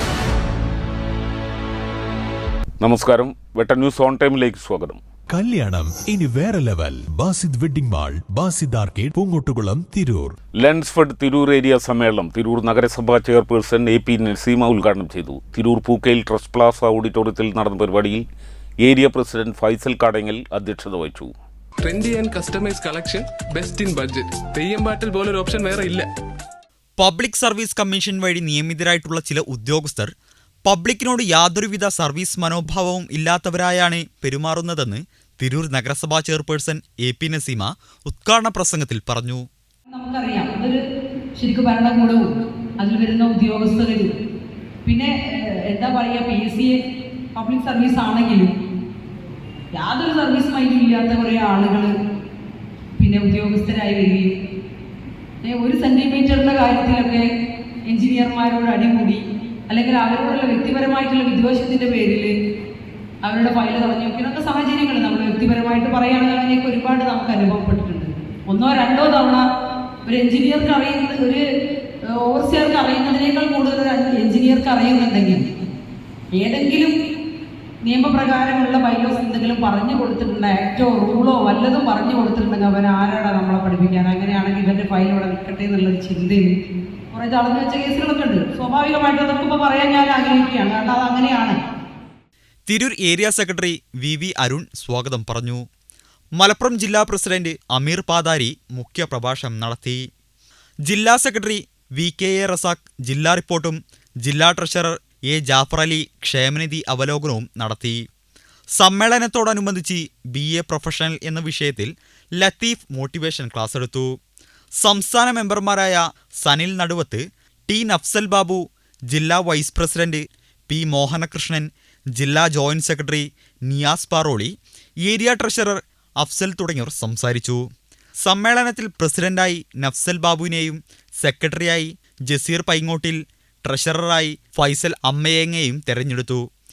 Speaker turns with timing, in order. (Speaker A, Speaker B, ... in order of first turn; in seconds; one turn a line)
Speaker A: 2.8-5.0
Speaker B: 5.3-10.3
Speaker A: 10.6-18.2
Speaker A: 18.8-21.3
Speaker C: 21.8-26.1
Speaker D: 27.0-30.1
Speaker D: 30.6-39.5
Speaker E: 39.9-40.8
Speaker E: 41.4-44.1
Speaker E: 44.9-46.8
Speaker E: 47.4-48.5
Speaker E: 49.7-51.9
Speaker E: 53.0-54.3
Speaker E: 55.4-57.2
Speaker E: 57.9-62.3
Speaker E: 63.2-69.4
Speaker E: 70.1-71.4
Speaker E: 72.1-75.4
Speaker E: 76.4-76.9
Speaker E: 77.8-86.5
Speaker E: 87.1-91.6
Speaker D: 92.7-95.7
Speaker D: 96.4-100.0
Speaker D: 100.9-108.0
Speaker D: 108.8-114.2
Speaker D: 114.8-127.6
Speaker D: 128.2-136.4